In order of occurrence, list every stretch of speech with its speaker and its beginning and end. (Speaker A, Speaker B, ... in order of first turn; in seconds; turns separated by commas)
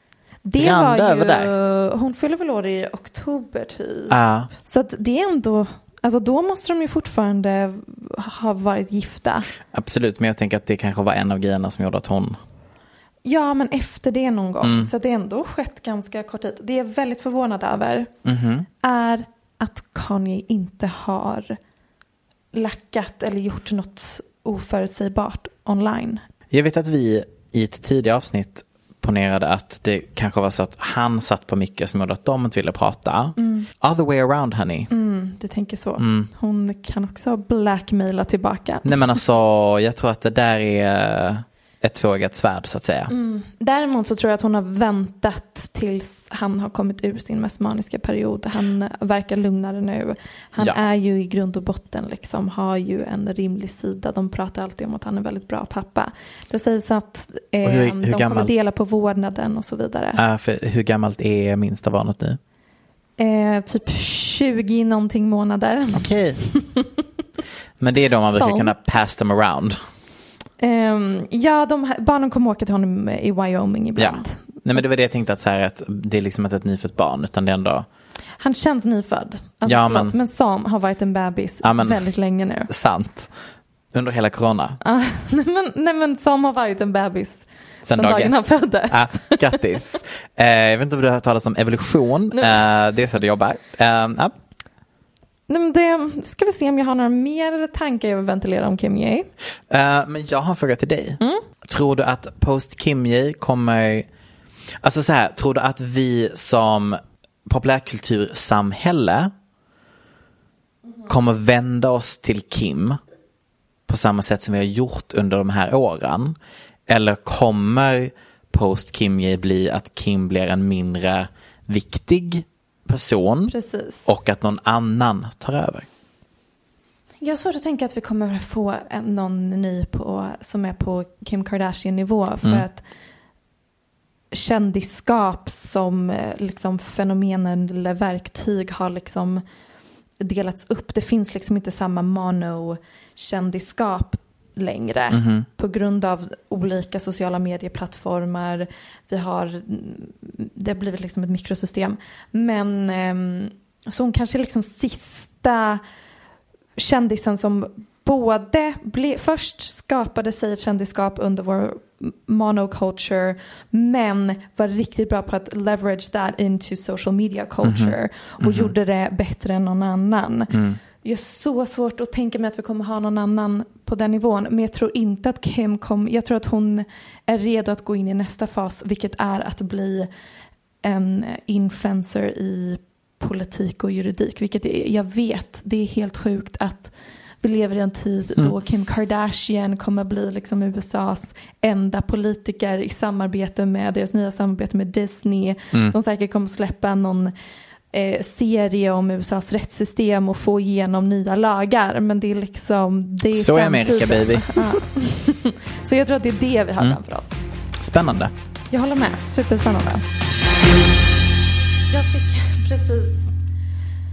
Speaker A: 0.4-9.5, Speaker B: 0.6-1.5, Speaker B: 4.1-4.5, Speaker B: 9.7-12.4, Speaker A: 13.2-18.1, Speaker B: 14.6-14.9, Speaker B: 18.2-18.7, Speaker A: 18.8-21.6, Speaker A: 22.5-26.2, Speaker B: 26.5-34.9, Speaker A: 33.4-33.7, Speaker A: 34.9-38.9, Speaker B: 36.0-36.3, Speaker B: 38.8-43.1, Speaker A: 43.1-60.2, Speaker B: 57.6-58.5, Speaker B: 60.1-62.4, Speaker A: 63.2-66.8, Speaker B: 65.9-66.4, Speaker B: 67.8-69.8, Speaker A: 68.3-68.7, Speaker A: 70.6-74.8, Speaker B: 74.0-77.9, Speaker A: 78.4-82.7, Speaker B: 79.6-80.2, Speaker B: 81.6-82.0, Speaker B: 82.7-83.3, Speaker B: 83.9-84.8, Speaker A: 84.8-89.8, Speaker B: 87.8-88.4, Speaker B: 88.9-94.3, Speaker A: 92.3-92.6, Speaker A: 95.5-99.3, Speaker B: 99.7-104.1, Speaker B: 104.8-109.3, Speaker B: 111.1-113.0, Speaker B: 113.9-116.4, Speaker B: 116.9-123.5, Speaker A: 123.5-124.1, Speaker B: 124.0-125.9, Speaker A: 127.2-132.8, Speaker A: 134.3-139.4, Speaker A: 140.2-155.8, Speaker B: 145.1-145.4, Speaker A: 156.8-180.1, Speaker B: 167.6-168.7, Speaker B: 170.5-170.8, Speaker A: 180.8-197.3, Speaker A: 197.9-207.4, Speaker B: 203.3-204.8, Speaker B: 207.8-208.3, Speaker A: 208.7-210.0, Speaker A: 211.9-213.3